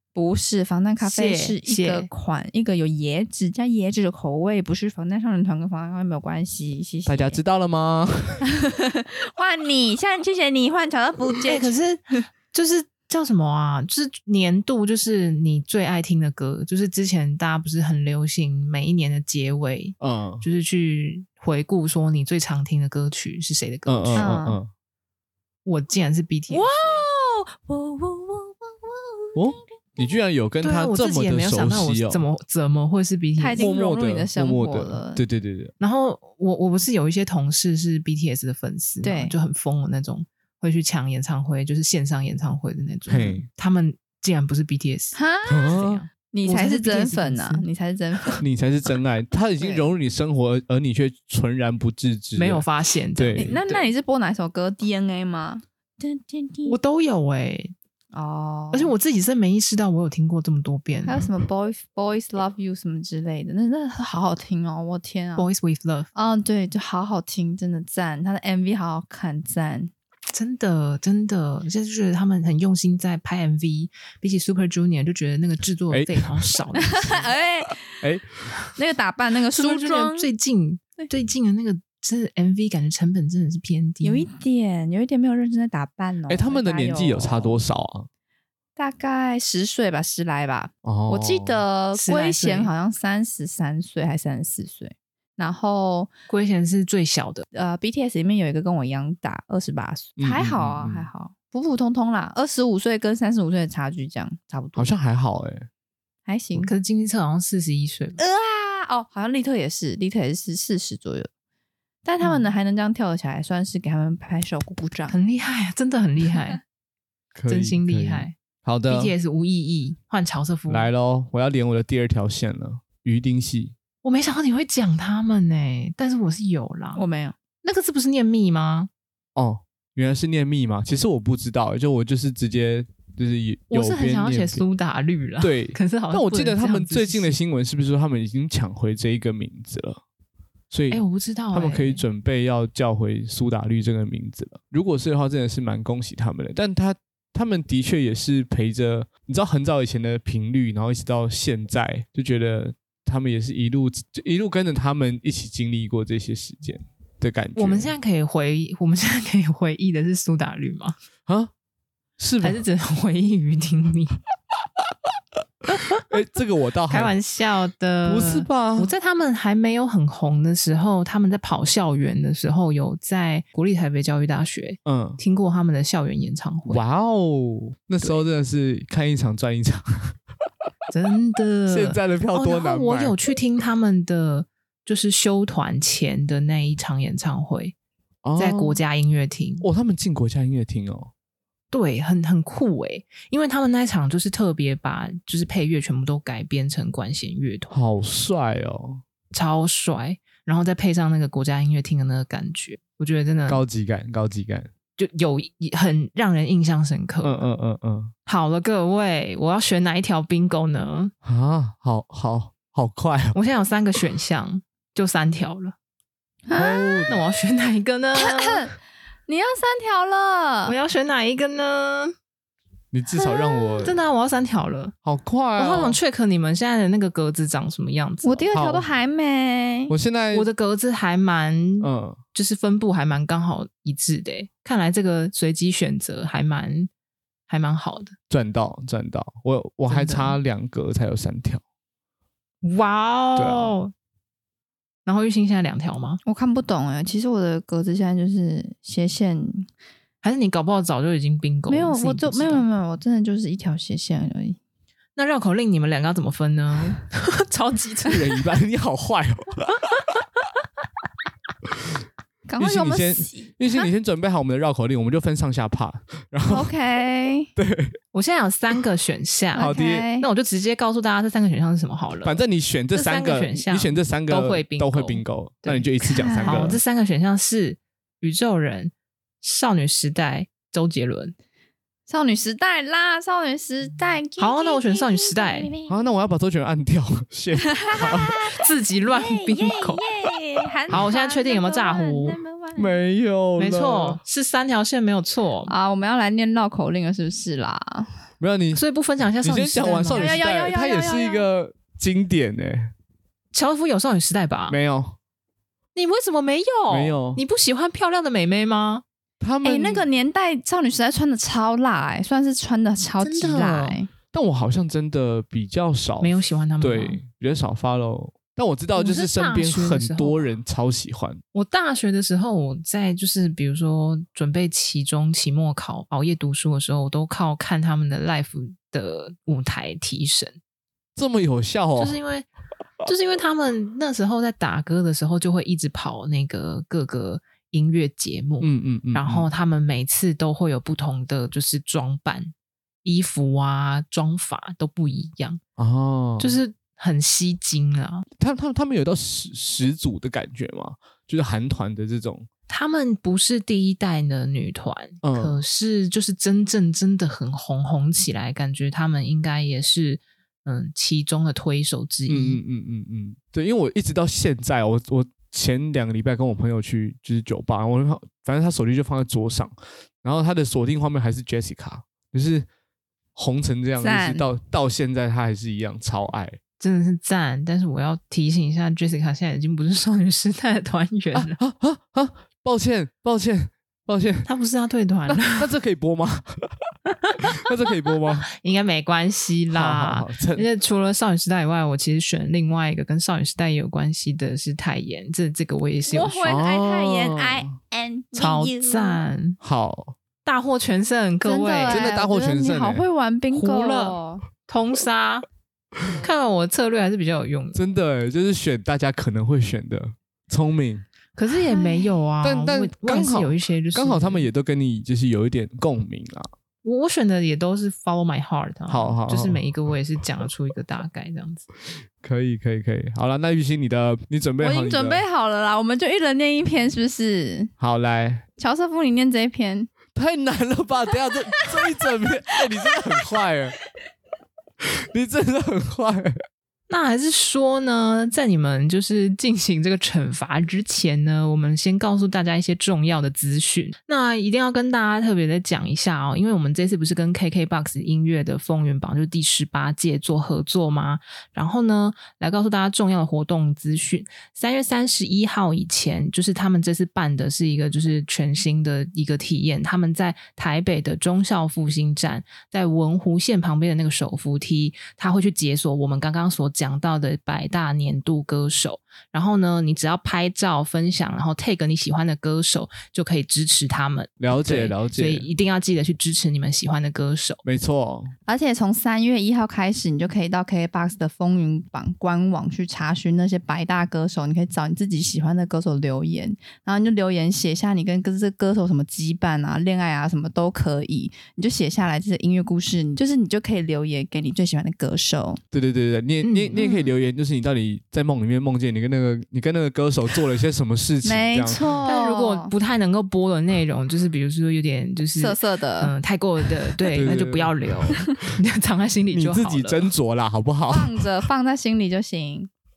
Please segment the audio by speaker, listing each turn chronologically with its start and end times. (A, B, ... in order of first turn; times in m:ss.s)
0:00.1-0:07.4 A
0:01.0-0:02.1 B
0:07.0-0:08.4 C
0:08.4-0:11.7 A
0:11.4-0:24.4 B
0:20.0-0:20.4 C
0:23.9-0:24.7 C
0:24.2-0:24.6 A
0:25.6-0:27.0 B
0:26.5-0:30.1 A
0:29.3-0:32.3 C
0:30.6-0:33.7 B
0:33.4-0:35.2 A
0:33.6-0:35.7 C
0:35.8-0:47.7 B
0:39.0-0:39.3 A
0:43.1-0:43.5 C
0:45.1-0:45.8 A
0:45.5-0:46.0 C
0:46.3-0:48.4 A
0:48.4-0:52.6 C
0:52.4-0:53.6 B
0:53.2-0:53.8 C
0:53.4-0:56.8 A
0:56.7-0:57.7 B
0:58.1-0:58.9 A
0:58.7-1:01.3 B
1:01.0-1:05.5 A
1:05.4-1:06.1 B
1:06.1-1:09.9 A
1:10.3-1:17.3 B
1:15.9-1:16.6 C
1:16.8-1:18.0 A
1:17.9-1:18.3 C
1:18.8-1:20.3 A
1:19.5-1:24.3 B
1:24.0-1:27.6 A
1:26.3-1:28.1 C
1:28.8-1:36.1 A
1:30.8-1:31.6 C
1:31.9-1:32.7 B
1:36.3-1:37.4 B
1:37.5-1:44.9 A
1:40.2-1:41.1 C
1:44.8-1:45.7 C
1:46.3-1:46.7 A
1:46.6-1:48.2 B
1:48.2-1:51.3 A
1:52.0-1:55.2 A
1:52.2-1:52.5 B
1:55.1-1:56.6 B
1:57.3-1:59.1 C
1:57.5-1:58.3 B
1:58.9-2:00.9 B
2:00.7-2:03.7 C
2:04.0-2:07.0 B
2:06.9-2:07.3 A
2:07.6-2:08.9 B
2:09.3-2:14.6 C
2:13.7-2:17.4 B
2:15.4-2:20.0 C
2:20.7-2:37.9 C
2:20.9-2:22.0 B
2:37.6-2:41.0 B
2:42.2-2:42.6 C
2:42.4-2:44.2 B
2:45.7-2:46.0 B
2:46.0-2:47.1 C
2:46.9-2:56.8 B
2:48.0-2:48.9 C
2:54.8-2:55.2 C
2:56.7-3:00.2 C
3:00.9-3:07.7 B
3:01.7-3:03.2 C
3:08.2-3:08.8 C
3:08.4-3:09.7 B
3:09.6-3:11.1 C
3:11.7-3:17.7 B
3:17.7-3:19.0 C
3:19.3-3:23.6 B
3:23.5-3:24.7 C
3:25.0-3:27.4 B
3:27.2-3:28.1 C
3:28.3-3:31.1 B
3:31.2-3:33.4 C
3:33.3-3:35.8 B
3:36.5-3:37.1 A
3:36.6-3:37.2 C
3:37.1-3:38.7 B
3:38.2-3:38.7 A
3:39.3-3:40.8 A
3:40.6-3:42.1 B
3:42.9-3:44.0 C
3:43.1-3:43.8 A
3:43.8-3:44.9 B
3:45.0-3:46.0 C
3:45.6-3:48.5 B
3:48.2-3:49.9 A
3:48.5-3:48.8 C
3:49.9-3:50.5 C
3:50.3-3:56.9 B
3:51.8-3:52.2 C
3:57.5-3:58.2 B
3:58.3-4:01.6 C
3:59.9-4:00.4 B
4:02.6-4:03.9 B
4:03.4-4:03.7 C
4:05.0-4:06.2 B
4:06.2-4:09.7 A
4:10.2-4:12.6 B
4:11.7-4:14.6 A
4:15.2-4:18.4 B
4:18.1-4:20.1 C
4:21.7-4:22.0 C
4:22.5-4:23.9 A
4:22.6-4:26.7 C
4:26.5-4:27.5 A
4:27.6-4:28.0 C
4:28.1-4:32.4 B
4:29.5-4:30.3 A
4:29.6-4:30.1 C
4:32.2-4:36.8 C
4:32.9-4:41.3 B
4:36.1-4:36.7 A
4:42.1-4:46.0 A
4:44.4-4:45.7 B
4:45.9-4:48.5 C
4:47.6-4:52.9 A
4:48.6-4:50.0 B
4:50.9-4:52.4 B
4:52.8-4:54.2 C
4:53.6-4:55.7 B
4:55.7-4:58.1 A
4:58.4-4:58.8 C
4:58.7-5:00.3 B
4:59.4-5:02.9 C
5:00.1-5:01.4 A
5:03.5-5:04.8 B
5:04.7-5:05.2 C
5:05.9-5:09.0 B
5:06.9-5:07.4 C
5:09.4-5:10.1 C
5:09.6-5:14.1 A
5:13.2-5:14.0 B
5:14.3-5:21.4 C
5:16.2-5:17.2 B
5:19.0-5:20.5 B
5:21.5-5:30.6 B
5:31.2-5:32.2 C
5:32.0-5:32.5 B
5:33.0-5:42.5 B
5:38.6-5:39.5 C
5:43.0-5:45.6 B
5:45.8-5:46.6 C
5:46.4-5:48.2 B
5:48.4-5:52.5 C
5:52.7-6:02.6 B
5:55.2-5:55.6 C
6:02.3-6:12.7 C
6:13.3-6:16.6 C
6:14.0-6:14.4 A
6:16.8-6:21.6 B
6:21.3-6:24.5 C
6:24.4-6:25.7 B
6:25.3-6:26.7 C
6:27.2-6:27.5 B
6:27.5-6:28.5 C
6:28.5-6:36.5 B
6:29.7-6:30.7 C
6:36.1-6:39.2 A
6:36.4-6:37.8 C
6:38.3-6:39.6 B
6:39.6-6:40.2 C
6:40.4-6:42.1 B
6:41.4-6:44.4 A
6:41.9-6:43.0 C
6:43.5-6:45.4 B
6:46.2-6:47.8 B
6:47.7-6:51.0 C
6:51.4-6:54.5 B
6:51.7-6:52.1 A
6:52.4-6:56.5 C
6:56.8-7:01.7 B
6:58.9-6:59.6 C
7:02.2-7:05.2 C
7:04.6-7:07.7 A
7:07.8-7:08.4 C
7:08.6-7:09.9 A
7:10.1-7:13.8 C
7:14.8-7:16.3 C
7:16.9-7:57.6 B
7:54.4-7:55.5 C
7:57.6-7:58.3 C
7:58.5-8:15.6 A
8:15.7-8:21.9 C
8:16.4-8:17.0 B
8:16.8-8:17.0 A
8:21.2-8:22.7 A
8:22.0-8:30.1 B
8:25.4-8:26.1 A
8:27.1-8:28.2 C
8:29.3-8:31.3 C
8:30.9-8:32.7 A